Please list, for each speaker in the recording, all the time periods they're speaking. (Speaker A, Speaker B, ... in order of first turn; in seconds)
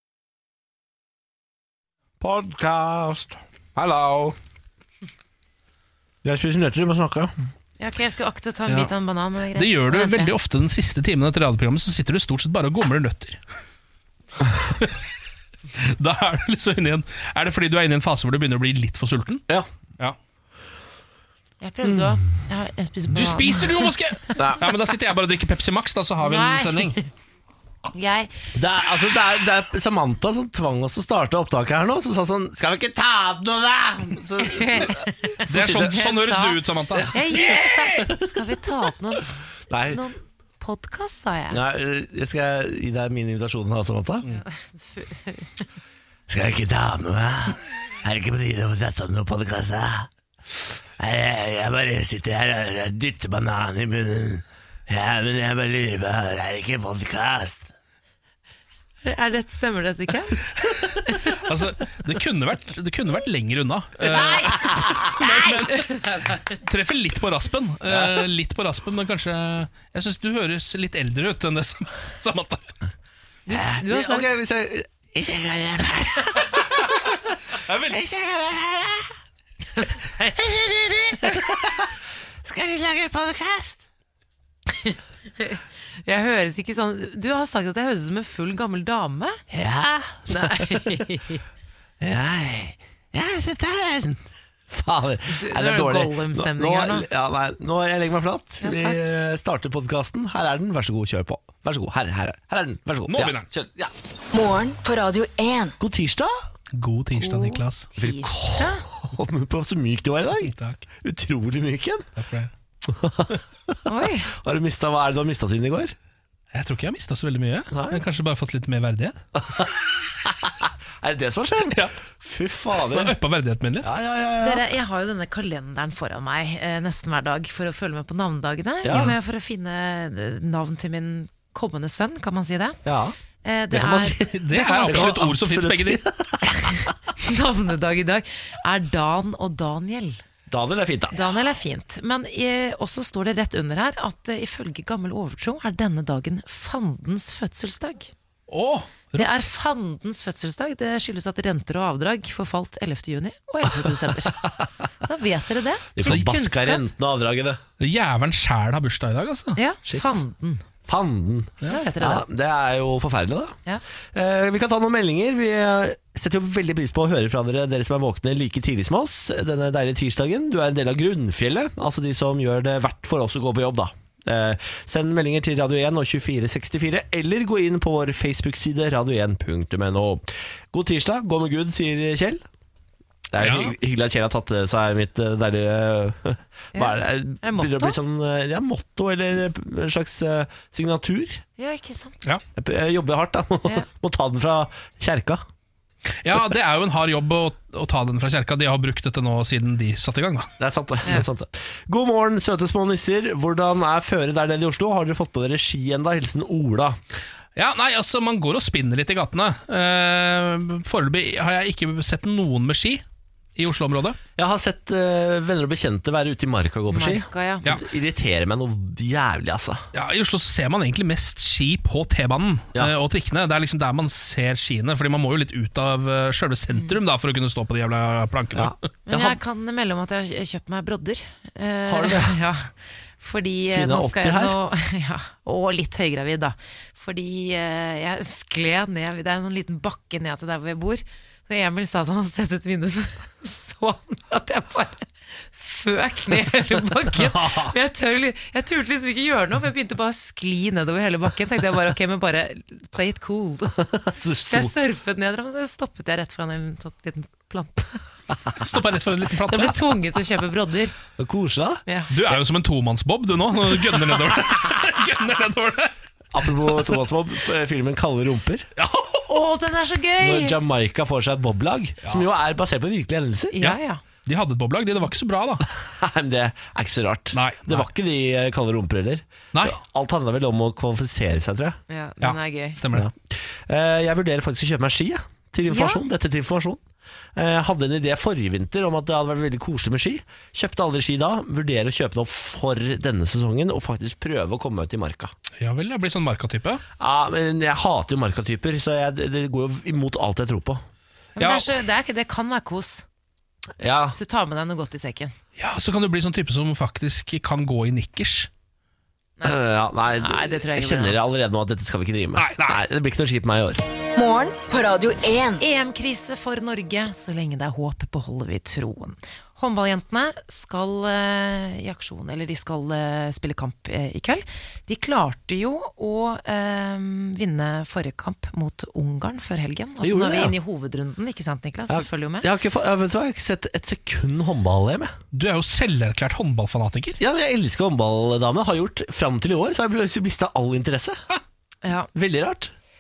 Speaker A: 2.2-4.4, 6.2-7.3, 24.4-24.7, 28.6-35.9, 37.0-38.4, 39.7-40.0, 41.5-44.2, 46.3-50.1, 51.0-57.7, 64.2-65.1, 67.9-68.3, 73.5-77.2, 77.9-79.1, 80.2-83.8, 89.5-91.0, 92.0-103.9, 105.8-106.3, 108.0-112.1, 112.8-113.8, 114.3-116.0, 117.7-118.0, 119.4-123.1, 123.8-124.6, 128.8-129.2, 132.8-133.2, 133.7-136.9, 140.5-141.2, 156.0-157.6, 159.9-160.2, 160.8-163.6, 164.1-182.4, 183.3-191.4, 192.6-195.4, 200.6-207.0, 214.4-219.8, 228.6-229.4, 231.9-232.4, 233.7-234.6, 253.9-254.7, 261.2-261.8, 266.3-268.7, 270.2-273.6, 275.7-281.8, 282.9-286.8, 287.4-295.3, 297.0-300.8, 303.8-304.2, 309.4-313.8, 330.0-330.5, 331.9-335.1, 337.2-341.2, 342.1-342.7
Speaker B: 7.8-10.3, 21.6-23.9, 26.2-26.9, 27.9-28.3, 34.4-39.3, 39.9-41.6, 44.3-45.5, 59.0-60.4, 64.1-66.4, 73.5-74.3, 84.9-89.4, 90.3-91.4, 95.3-97.1, 98.6-99.0, 107.2-108.8, 113.9-114.3, 124.4-132.8, 133.4-135.1, 136.6-140.2, 141.1-148.1, 149.2-154.4, 155.0-156.8, 159.6-160.6, 161.7-162.2, 186.8-188.0, 191.6-192.2, 216.9-217.7, 226.7-227.0, 229.1-253.9, 254.4-258.0, 259.5-260.9, 261.9-262.1, 269.3-270.6, 273.5-274.0, 281.9-282.8, 285.7-286.0, 301.4-303.0, 304.1-305.3, 309.4-311.2, 315.6-332.5, 341.8-342.1
Speaker C: 9.6-13.4, 15.8-19.4, 23.1-26.9, 35.5-37.2, 61.3-65.9, 66.5-72.7, 77.6-78.0, 103.1-103.5, 106.8-107.9, 110.4-110.8, 112.2-112.5, 116.5-119.2, 122.9-123.9, 134.2-136.0, 148.5-149.4, 157.8-159.6, 183.4-183.7, 196.2-200.5, 207.6-213.0, 213.6-214.2, 219.9-228.8, 247.2-247.7, 258.6-260.0, 262.1-265.9, 268.8-269.3, 273.6-275.6, 277.3-277.9, 282.2-283.1, 295.6-296.8, 301.4-301.8, 305.6-308.5, 312.4-312.8, 335.3-337.2
Speaker D: 104.3-105.8, 314.2-315.6